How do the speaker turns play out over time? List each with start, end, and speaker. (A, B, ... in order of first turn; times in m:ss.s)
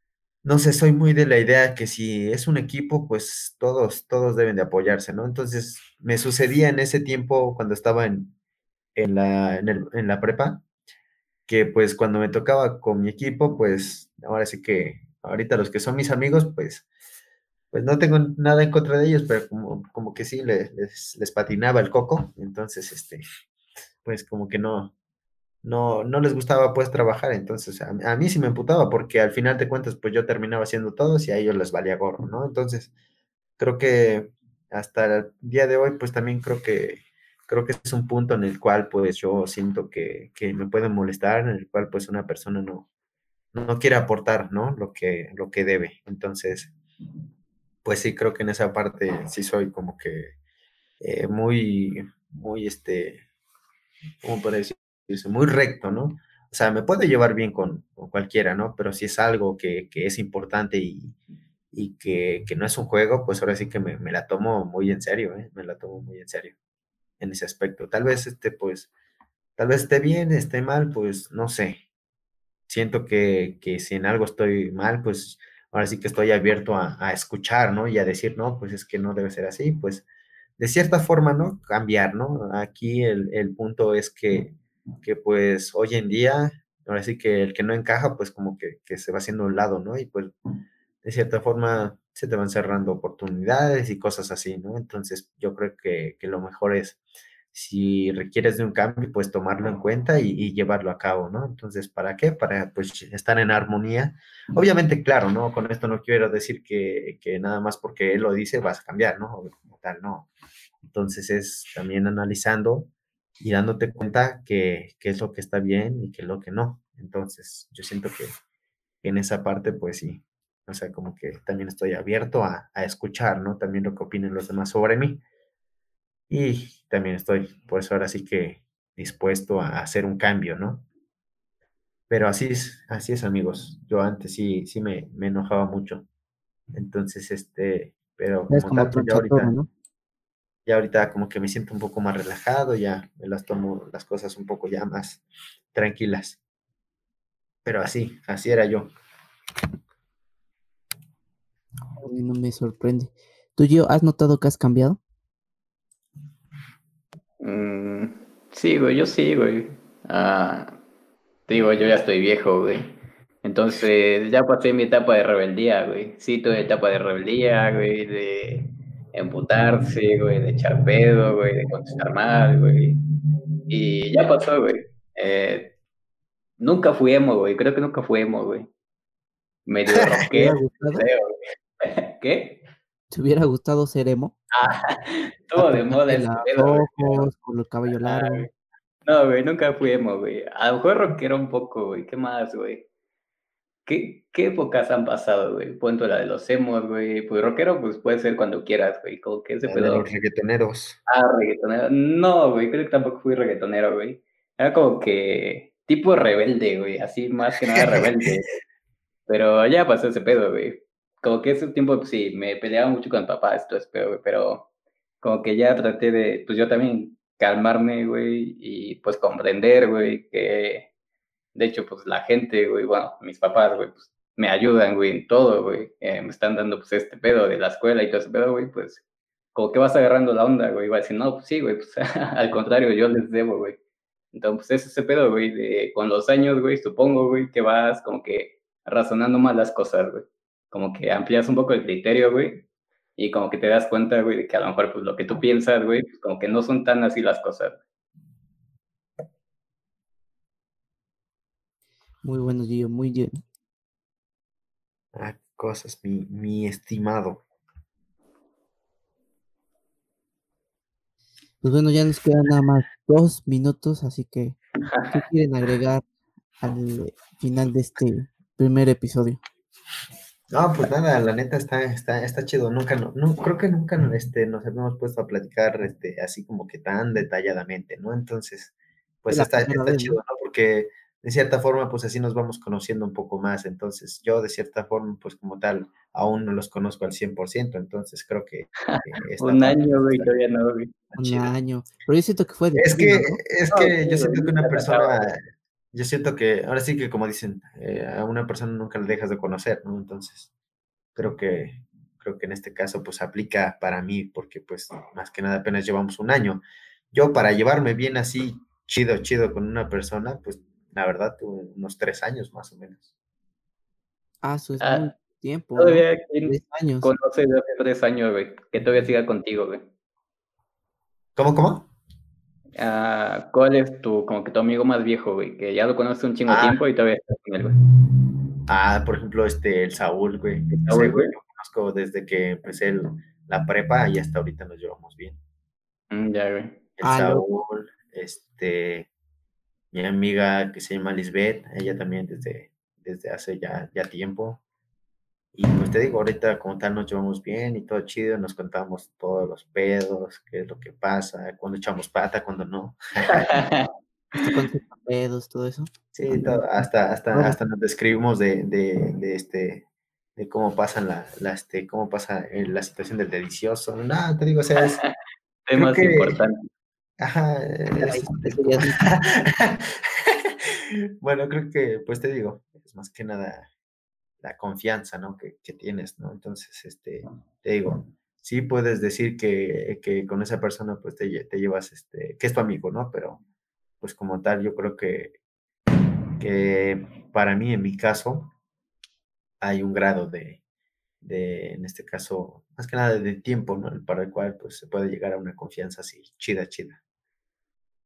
0:00.4-0:08.3 A
0:09.0-0:10.6 A
0:11.5-0:16.8 A
0:17.7-0:23.2 A
0:24.0-0:24.9 A
0:25.6-0:32.9 A
0:33.6-0:42.9 A
0:43.5-0:46.7 A
0:47.8-0:50.3 A
0:51.0-0:53.2 A
0:54.2-1:01.2 A
1:01.7-1:06.5 A
1:07.2-1:08.9 A
1:09.6-1:11.8 A
1:12.7-1:20.0 A
1:20.6-1:30.3 A
1:31.0-1:37.0 A
1:37.5-1:50.3 A
1:50.9-1:58.3 A
1:59.0-2:05.2 A
2:06.3-2:10.8 A
2:12.1-2:16.0 A
2:16.7-2:19.5 A
2:18.5-2:19.7 B
2:20.6-2:25.2 A
2:25.7-2:26.4 A
2:27.6-2:28.9 A
2:32.0-2:35.0 B
2:37.4-2:40.8 C
2:41.5-2:53.0 C
2:53.7-2:55.7 C
2:56.6-2:58.7 C
2:59.7-3:02.6 C
3:00.3-3:01.1 B
3:03.1-3:04.3 B
3:04.5-3:07.3 C
3:05.6-3:08.5 B
3:08.0-3:08.5 C
3:09.0-3:12.9 C
3:13.8-3:20.1 C
3:19.6-3:21.0 A
3:21.1-3:28.5 C
3:27.8-3:28.3 A
3:29.3-3:34.7 C
3:35.2-3:40.9 C
3:41.5-3:49.0 C
3:49.5-3:53.8 C
3:54.3-4:07.8 C
4:12.2-4:13.4 B
4:15.1-4:17.4 A
4:21.6-4:24.6 B
4:24.9-4:25.2 C
4:25.1-4:26.0 B
4:26.6-4:29.4 B
4:30.5-4:50.3 A
4:39.3-4:40.2 B
4:48.9-4:50.9 C
4:51.1-4:51.4 A
4:51.2-4:53.4 B
4:52.8-4:55.4 A
4:53.7-4:55.3 C
4:55.9-5:00.5 A
5:01.2-5:13.1 A
5:14.4-5:17.1 B
5:14.8-5:15.1 C
5:15.8-5:19.9 C
5:21.4-5:21.9 A
5:22.8-5:27.8 C
5:26.5-5:26.8 A
5:28.7-5:35.4 A
5:30.7-5:31.3 C
5:36.1-5:36.8 C
5:37.0-5:39.1 A
5:37.0-5:37.5 B
5:39.9-5:44.6 A
5:45.5-5:53.5 A
5:53.3-5:53.9 C
5:54.3-5:57.6 B
5:56.1-5:59.8 A
6:00.4-6:05.0 A
6:04.8-6:05.1 C
6:05.7-6:06.7 C
6:05.7-6:06.4 A
6:07.2-6:13.7 A
6:08.0-6:09.0 B
6:14.4-6:23.4 A
6:24.0-6:25.3 A
6:26.4-6:28.5 A
6:29.6-6:30.6 A
6:31.2-6:37.0 A